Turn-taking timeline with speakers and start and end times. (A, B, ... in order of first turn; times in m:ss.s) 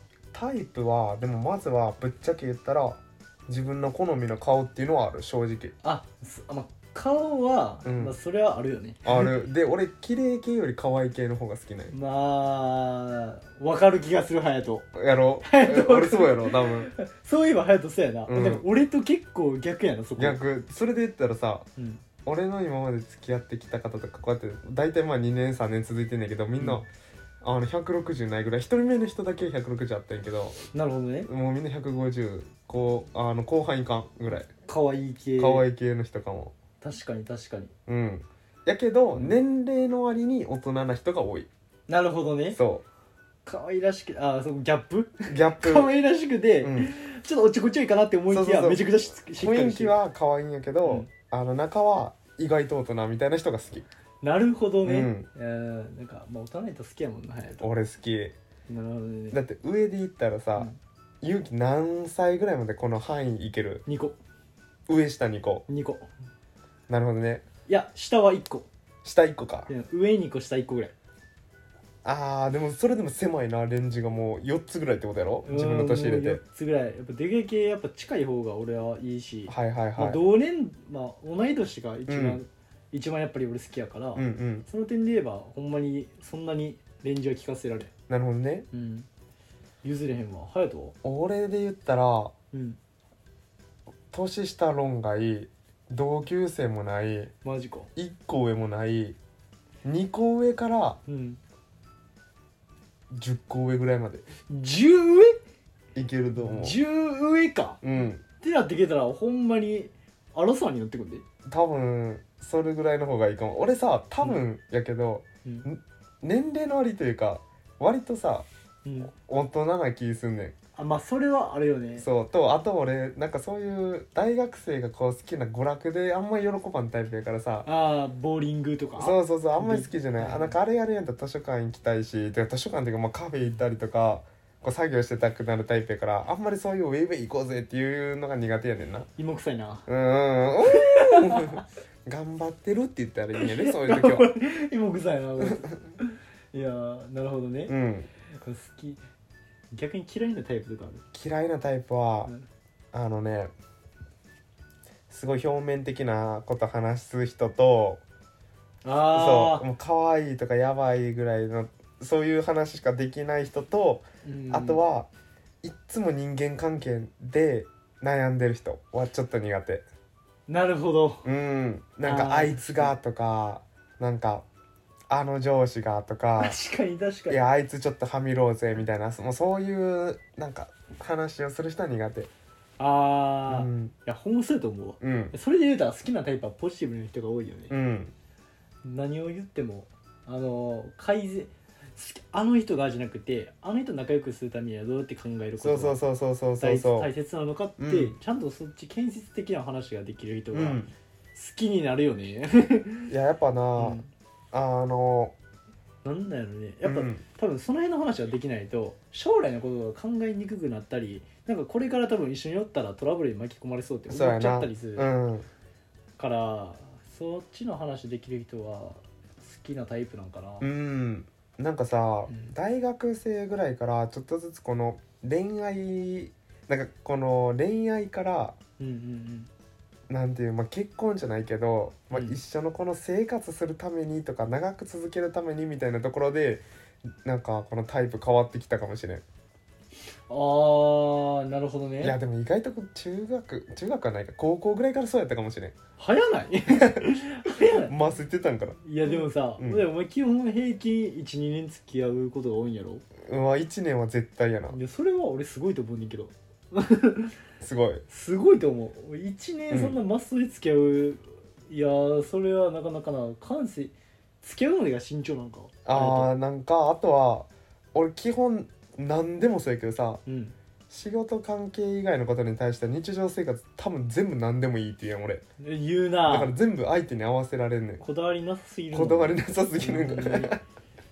0:00.3-0:05.7 A
0:05.8-0:09.0 B
0:07.8-0:08.1 A
0:09.0-0:11.9 A
0:11.9-0:14.9 B
0:14.9-0:16.9 A
0:15.4-0:20.4 B
0:18.3-0:18.6 A
0:20.2-0:21.7 A
0:21.8-0:22.0 B
0:22.2-0:26.9 A
0:27.4-0:30.6 A
0:30.7-0:31.3 B
0:31.2-0:34.5 A
0:34.4-0:35.6 B
0:35.4-0:36.5 A
0:36.8-0:37.7 B
0:37.9-0:41.5 A
0:41.9-0:42.6 B
0:42.5-0:42.8 A
0:43.4-0:50.0 B
0:45.3-0:45.9 A
0:46.6-0:46.9 A
0:48.3-0:53.8 A
0:50.8-0:51.1 B
0:54.2-0:57.7 B
0:54.8-0:55.3 A
0:57.6-0:58.3 A
0:58.7-0:59.4 B
0:59.3-1:00.7 A
1:01.2-1:03.8 A
1:03.8-1:04.2 B
1:04.9-1:05.6 A
1:05.7-1:06.0 B
1:06.9-1:07.4 A
1:07.7-1:08.7 B
1:09.0-1:09.7 A
1:09.7-1:10.9 B
1:12.0-1:16.4 A
1:15.4-1:27.9 B
1:19.5-1:20.2 A
1:22.1-1:22.4 A
1:24.1-1:24.6 A
1:28.1-1:28.7 A
1:28.7-1:29.1 B
1:29.8-1:30.9 B
1:31.0-1:32.3 A
1:32.5-1:32.8 B
1:34.1-1:37.3 A
1:37.4-1:37.9 B
1:38.0-1:39.2 A
1:39.8-1:41.0 A
1:41.1-1:41.4 B
1:43.1-1:44.2 A
1:44.5-1:45.4 B
1:45.9-1:46.8 A
1:46.4-1:51.2 B
1:47.8-1:48.2 A
1:51.5-1:58.5 A
1:58.8-1:59.1 B
1:59.1-2:00.5 A
2:00.7-2:02.1 B
2:02.0-2:07.7 A
2:07.6-2:10.6 B
2:09.0-2:19.1 A
2:19.2-2:19.8 B
2:19.9-2:24.3 A
2:20.7-2:21.6 B
2:23.4-2:27.7 B
2:25.4-2:25.7 A
2:27.7-2:28.1 A
2:28.4-2:29.0 B
2:29.7-2:31.0 B
2:31.1-2:32.3 A
2:32.9-2:33.5 A
2:35.1-2:38.0 A
2:38.8-2:39.7 B
2:39.1-2:45.1 A
2:44.2-2:44.8 B
2:45.6-2:49.8 A
2:50.5-2:51.2 B
2:51.2-2:54.4 A
2:52.0-2:53.0 B
2:55.1-2:56.6 A
2:56.4-2:57.4 B
2:57.3-3:02.3 A
3:02.8-3:07.7 B
3:03.5-3:03.9 A
3:05.0-3:05.3 A
3:07.7-3:08.1 A
3:08.8-3:16.0 B
3:15.6-3:17.1 A
3:16.6-3:20.8 B
3:17.8-3:18.2 A
3:20.5-3:20.9 A
3:21.3-3:23.1 B
3:23.1-3:24.0 A
3:23.8-3:24.1 B
3:24.5-3:25.3 A
3:26.0-3:35.1 B
3:26.8-3:27.2 A
3:34.1-3:35.4 A
3:36.2-3:40.7 B
3:40.6-3:48.6 A
3:42.3-3:42.5 B
3:48.8-3:49.5 B
3:50.1-3:56.6 A
3:52.1-3:52.4 B
3:57.2-3:59.2 A
4:00.3-4:02.2 B
4:02.0-4:05.7 A
4:06.0-4:07.9 B
4:06.9-4:07.2 A
4:07.8-4:09.8 A
4:08.8-4:13.0 B
4:13.2-4:14.8 A
4:14.7-4:17.3 B
4:17.6-4:18.0 A
4:18.1-4:26.3 B
4:19.7-4:20.0 A
4:25.8-4:30.2 A
4:30.2-4:30.5 B
4:30.9-4:35.4 A
4:35.6-4:36.5 B
4:36.2-4:38.0 A
4:38.0-4:40.6 B
4:38.9-4:40.6 A